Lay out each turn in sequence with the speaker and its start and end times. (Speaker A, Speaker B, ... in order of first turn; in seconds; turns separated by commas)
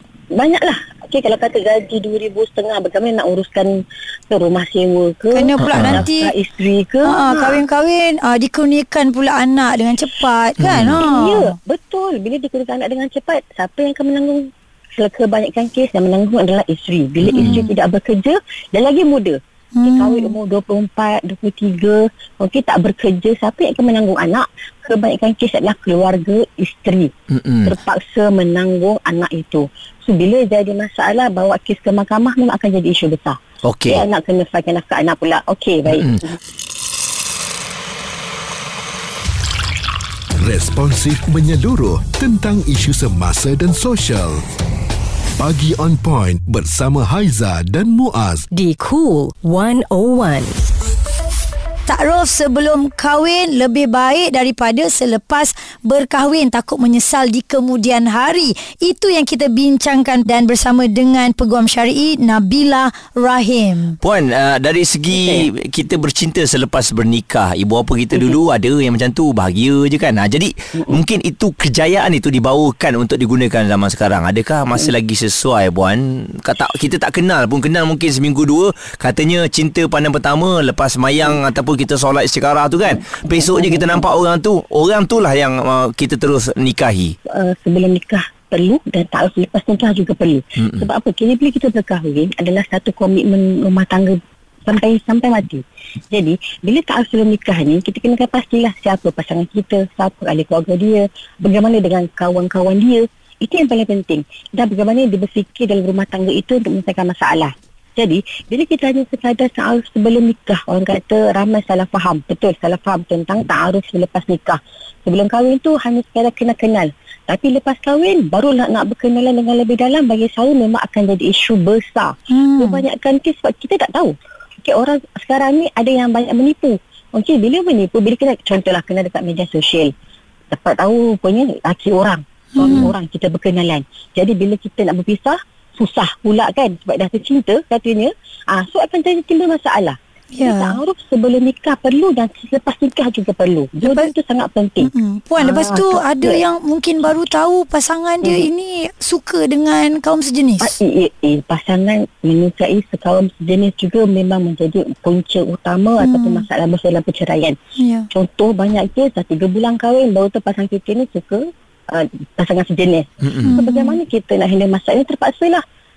Speaker A: 0.3-3.8, Speaker A: 4.3-7.6, Speaker B: 5.3-6.3, Speaker C: 5.6-6.0, Speaker B: 7.1-11.6, Speaker C: 10.6-11.0, Speaker A: 11.0-27.1, Speaker C: 17.2-17.6, Speaker B: 17.3-17.7, Speaker B: 19.8-20.4, Speaker C: 27.3-27.8, Speaker A: 27.7-36.4, Speaker C: 33.6-34.0, Speaker C: 35.9-36.2, Speaker D: 40.4-44.4, Speaker D: 45.4-48.5, Speaker E: 48.5-50.6, Speaker B: 51.9-64.0, Speaker C: 64.0-87.2, Speaker A: 65.1-65.5, Speaker A: 82.9-84.1, Speaker A: 87.3-129.9, Speaker C: 90.6-90.9, Speaker B: 122.3-122.8, Speaker A: 130.5-146.4, Speaker B: 132.6-132.9, Speaker B: 140.3-140.8, Speaker B: 143.8-144.1, Speaker B: 144.8-150.7, Speaker A: 150.6-157.6, Speaker B: 156.0-156.4, Speaker B: 157.8-158.1, Speaker A: 158.1-165.6, Speaker C: 163.2-163.6, Speaker B: 163.4-164.0